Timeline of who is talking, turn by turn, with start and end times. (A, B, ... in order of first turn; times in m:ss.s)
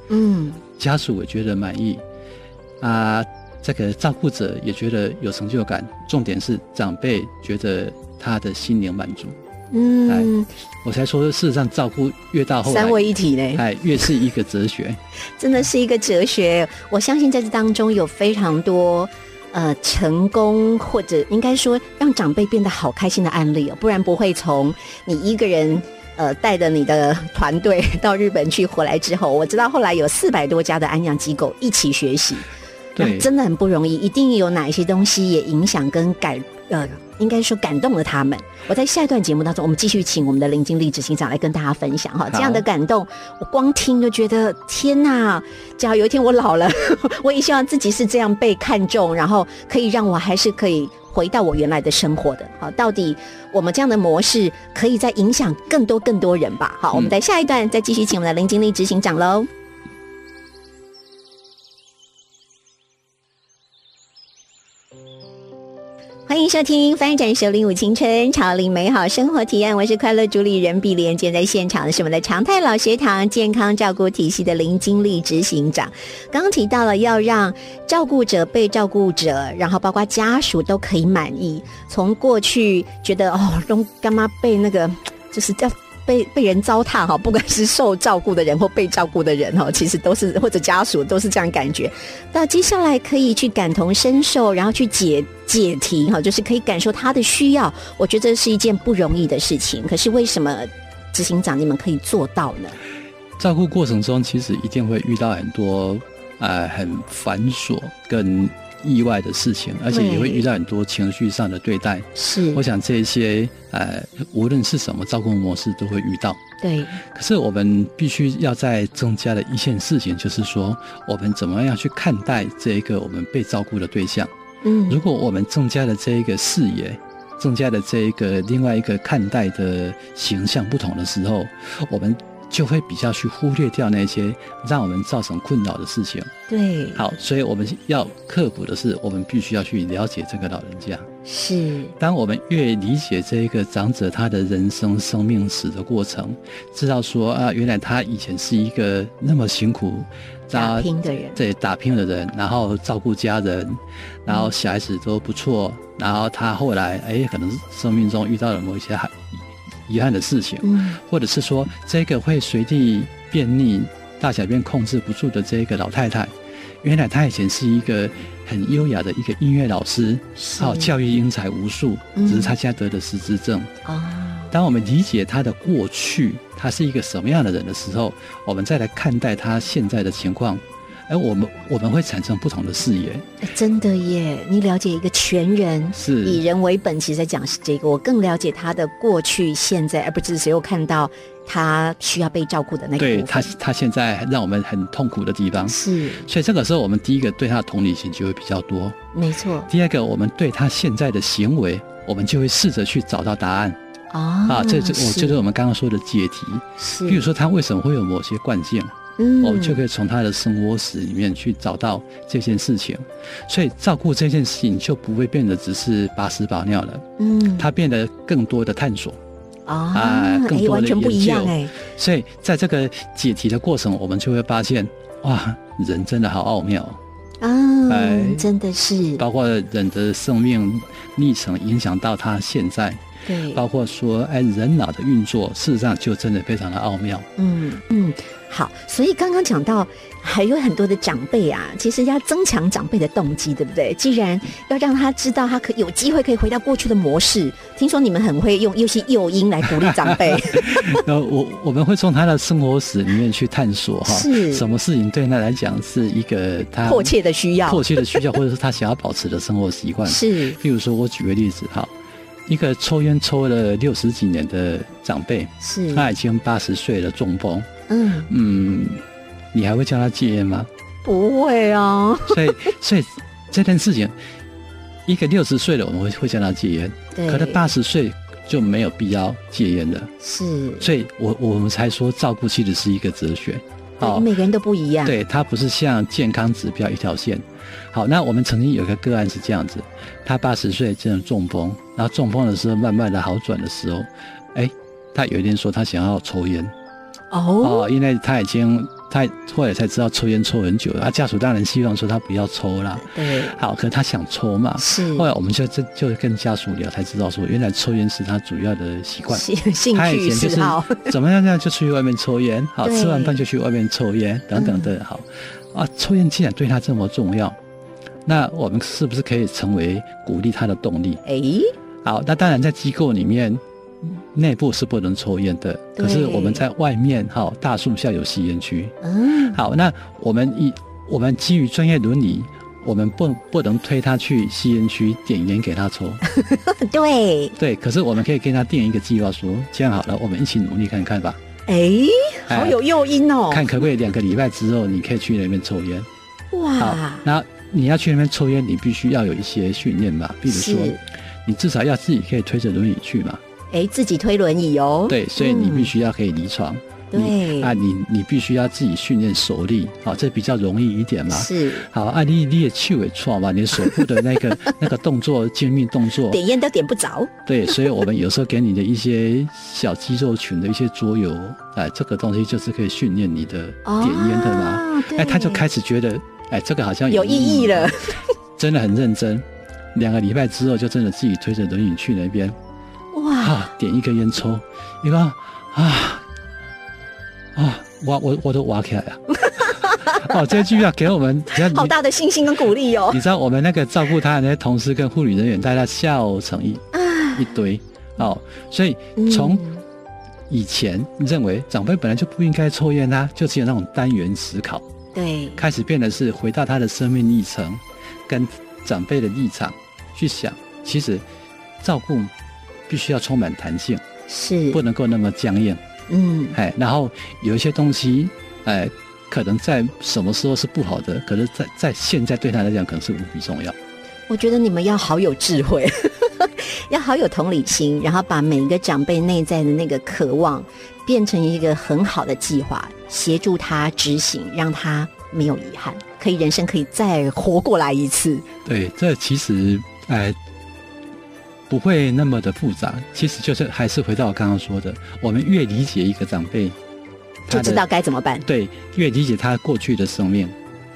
0:00.1-0:00.6 A
0:00.8-0:02.0 B
0:02.8-0:09.4 B
0:09.7-0:10.5 A
0:10.8-0:15.0 B
0:12.7-0:13.6 A
0:15.4-0:32.5 A
0:33.0-0:33.3 B
0:33.0-0:59.5 A
0:42.3-0:42.6 B
1:06.3-1:42.8 A
1:43.4-1:56.4 B
1:49.9-1:50.4 A
1:52.2-1:52.6 A
1:56.6-1:57.0 A
1:57.1-2:04.3 B
2:04.6-2:05.0 A
2:04.9-2:16.3 B
2:16.5-2:17.0 A
2:17.0-2:21.1 B
2:21.2-2:21.9 A
2:22.0-2:53.7 B
2:30.5-2:31.4 A
2:40.6-2:41.0 A
2:50.4-2:50.9 A
2:52.2-2:52.6 A
2:53.8-2:54.5 A
2:54.5-3:03.3 B
3:03.4-3:13.5 A
3:06.0-3:06.4 B
3:13.0-3:19.0 B
3:15.7-3:16.3 A
3:19.1-3:19.7 A
3:19.7-3:23.8 B
3:24.1-3:25.4 A
3:24.5-3:39.2 B
3:26.8-3:27.2 A
3:29.2-3:29.8 A
3:37.2-3:37.7 A
3:39.7-3:41.8 A
3:39.9-3:47.0 B
3:47.4-3:49.2 A
3:47.9-3:48.5 B
3:49.2-3:53.0 B
3:53.3-3:53.6 A
3:53.5-3:57.3 B
3:57.4-4:11.0 A
4:10.0-4:17.1 B
4:14.1-4:14.7 A
4:16.9-4:18.2 A
4:17.6-4:21.9 B
4:20.1-4:20.6 A
4:22.5-4:27.7 B
4:25.6-4:26.1 A
4:27.9-4:28.3 A
4:28.3-4:29.0 B
4:29.5-4:30.7 B
4:31.0-4:32.7 A
4:32.3-4:34.2 B
4:35.1-4:40.1 B
4:37.2-4:37.6 A
4:40.2-4:40.9 A
4:40.8-4:44.3 B
4:44.0-4:45.2 A
4:45.0-4:56.7 B
4:57.3-4:57.9 A
4:57.6-5:17.6 B
5:03.0-5:03.6 A
5:04.8-5:05.3 A
5:09.3-5:11.1 A
5:12.8-5:13.4 A
5:14.6-5:15.0 A
5:18.3-5:21.2 B
5:21.2-5:21.7 A
5:22.0-5:29.0 B
5:26.0-5:26.6 A
5:29.0-5:29.6 A
5:29.5-5:36.2 B
5:36.3-5:37.5 A
5:37.6-5:41.4 B
5:41.7-5:43.9 A
5:42.5-5:42.8 B
5:43.5-5:46.1 B
5:46.5-5:47.3 A
5:46.8-5:53.4 B
5:50.5-5:51.0 A
5:53.7-5:55.9 A
5:55.1-6:06.4 B
5:57.1-5:57.7 A
6:01.3-6:01.9 A
6:06.3-6:07.3 A
6:07.5-6:18.0 B
6:13.8-6:15.6 A
6:17.1-6:18.2 A
6:18.6-6:22.6 B
6:23.1-6:23.7 A
6:23.4-6:26.2 B
6:27.6-6:31.9 B
6:29.4-6:30.3 A
6:31.6-6:33.2 A
6:33.1-6:39.7 B
6:36.9-6:37.5 A
6:39.2-6:39.8 A
6:40.5-6:44.8 B
6:45.2-6:45.6 A
6:45.6-6:51.2 B
6:51.8-6:52.3 B
6:52.9-6:54.0 B
6:54.3-6:54.8 A
6:54.7-6:55.8 B
6:56.1-6:56.6 A
6:56.6-7:03.8 B
7:04.3-7:18.5 A
7:18.7-7:20.4 B
7:21.7-7:26.8 B
7:27.5-7:27.8 B
7:27.5-7:28.5 A
7:28.4-7:30.6 B